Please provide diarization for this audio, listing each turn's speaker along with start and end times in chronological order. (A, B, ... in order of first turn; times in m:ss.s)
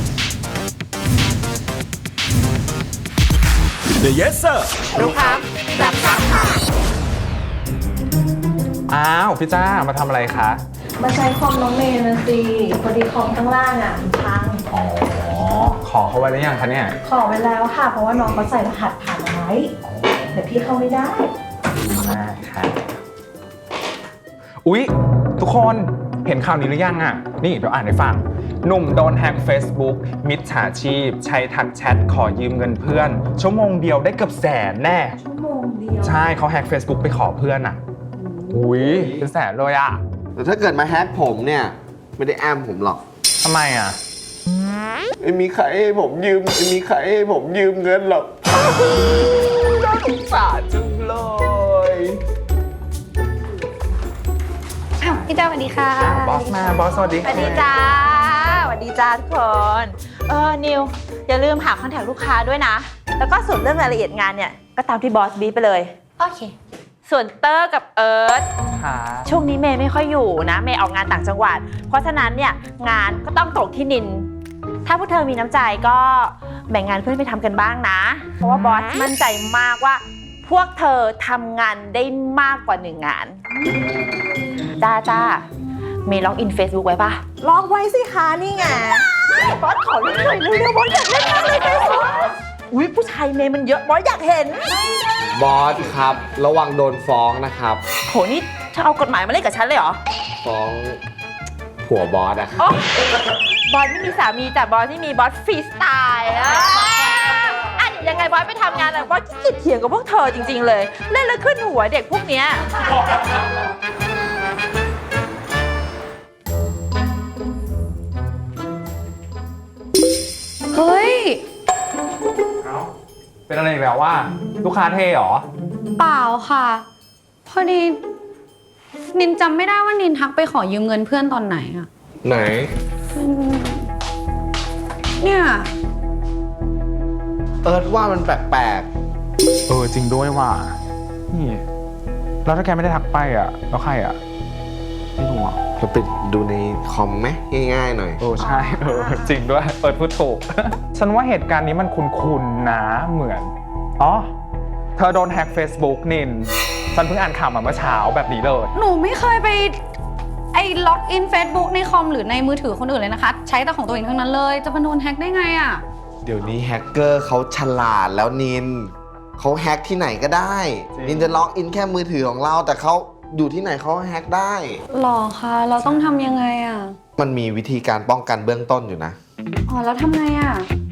0:04.9-0:06.6 A
0:08.9-0:10.6 B
0:11.0-0:14.6 C
0:14.7-0:17.0 B
0:17.1-0:19.7 C
0:19.8-0:20.3 B
0:20.3-0:21.3 C
0:21.8-0:22.8 B
0:24.6-0:35.2 B
0:35.2-0:36.2 C
0:36.0-0:37.8 B
0:38.2-0:38.9 C
0:38.5-0:40.0 B
0:40.4-0:43.0 D
0:43.4-0:44.0 B
0:45.2-0:52.2 D
0:55.0-0:57.1 E
0:56.0-0:57.7 B
0:57.2-1:05.9 A
1:06.2-1:06.5 E
1:07.0-1:08.4 A
1:08.7-1:09.3 B
1:09.2-1:14.3 A
1:14.8-1:23.4 A
1:24.7-1:25.4 A
1:26.0-1:34.7 A
1:27.6-1:28.8 C
1:30.4-1:30.8 C
1:35.3-1:37.8 D
1:38.1-1:40.0 A
1:40.4-1:41.0 D
1:41.8-1:42.6 D
1:42.6-1:43.0 A
1:43.7-1:52.9 A
2:00.7-2:01.4 E
2:02.6-2:02.9 B
2:03.5-2:05.4 B
2:06.0-2:06.8 E
2:07.4-2:08.0 E
2:09.1-2:11.9 E
2:12.2-2:12.7 D
2:13.1-2:13.9 E
2:15.2-2:15.7 E
2:17.6-2:18.9 D
2:19.7-2:20.8 B
2:21.3-2:21.6 B
2:22.4-2:24.2 B
2:25.2-2:25.6 B
2:25.8-2:28.2 D
2:28.2-2:34.3 B
2:28.4-2:29.4 E
2:35.0-2:38.7 B
2:38.7-2:39.8 E
2:40.5-2:45.8 E
2:46.2-2:54.8 D
2:51.0-2:51.3 B
2:54.9-2:57.0 E
2:57.2-2:59.2 D
2:59.7-3:00.7 E